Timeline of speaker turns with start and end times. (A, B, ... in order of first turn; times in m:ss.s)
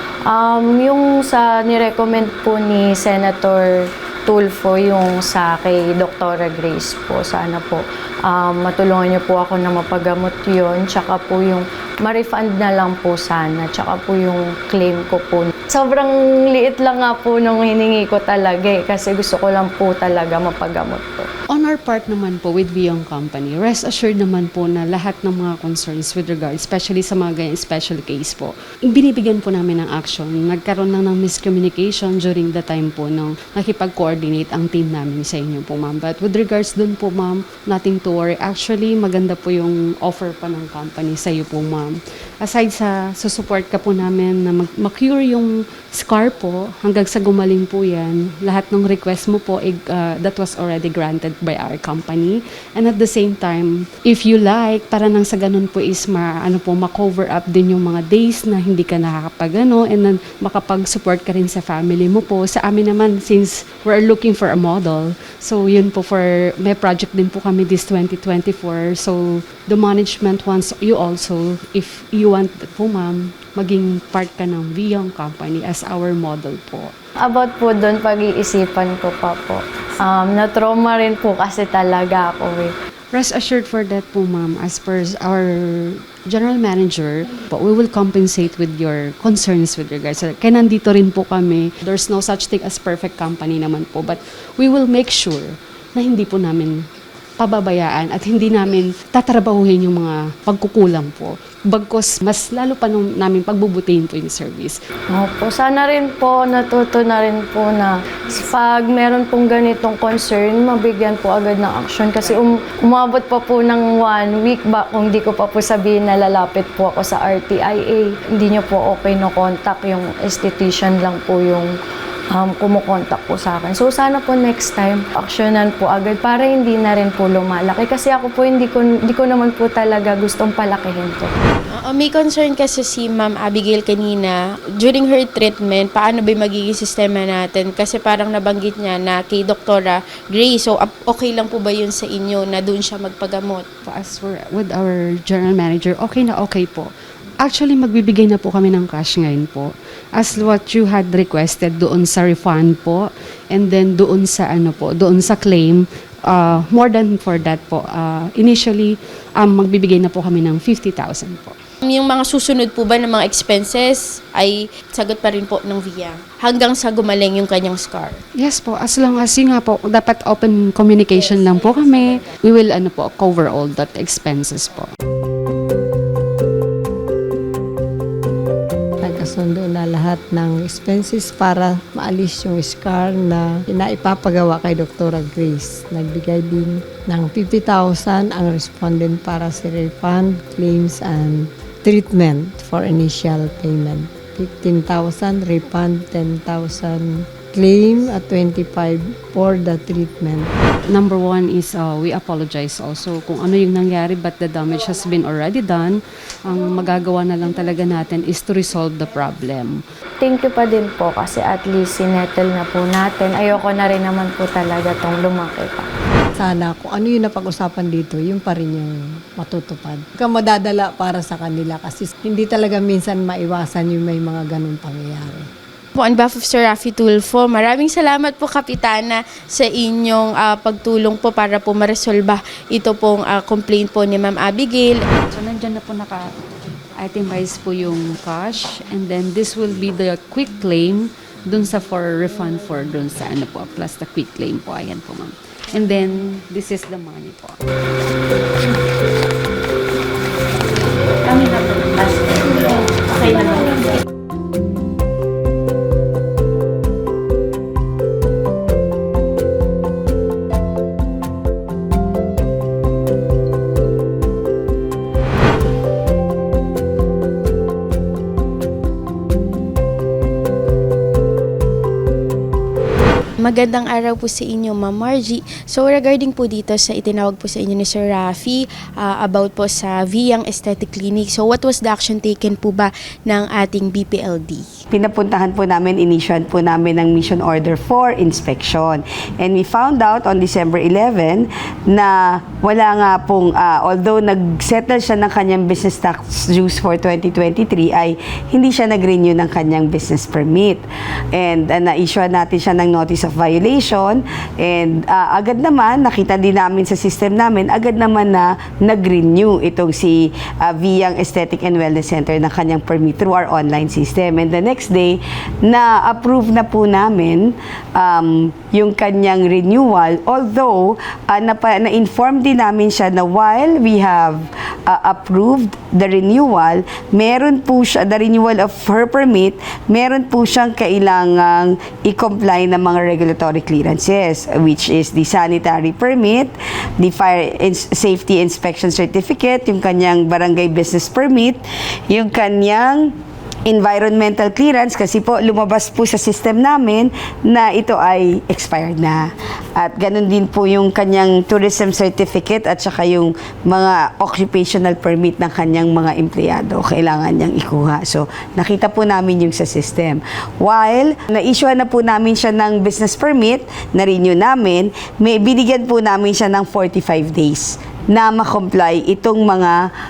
0:00.3-0:21.3 A
0:21.5-1:16.9 B
1:17.2-1:22.7 A
1:23.1-1:36.8 B
1:37.4-1:44.8 B
1:45.1-2:01.7 A
2:02.3-2:11.3 A
2:11.7-2:23.7 C
2:23.8-2:26.9 B
2:27.4-2:41.5 B
2:41.9-2:48.2 C
2:48.4-2:54.9 B
2:59.0-3:20.5 D
3:20.9-3:29.8 B
3:30.2-3:35.9 A
3:36.4-3:45.5 D
3:45.9-3:55.0 C
3:55.3-3:56.3 B
3:57.0-4:07.6 B
4:33.4-4:44.7 C
4:44.9-5:43.1 E
5:43.7-6:09.8 E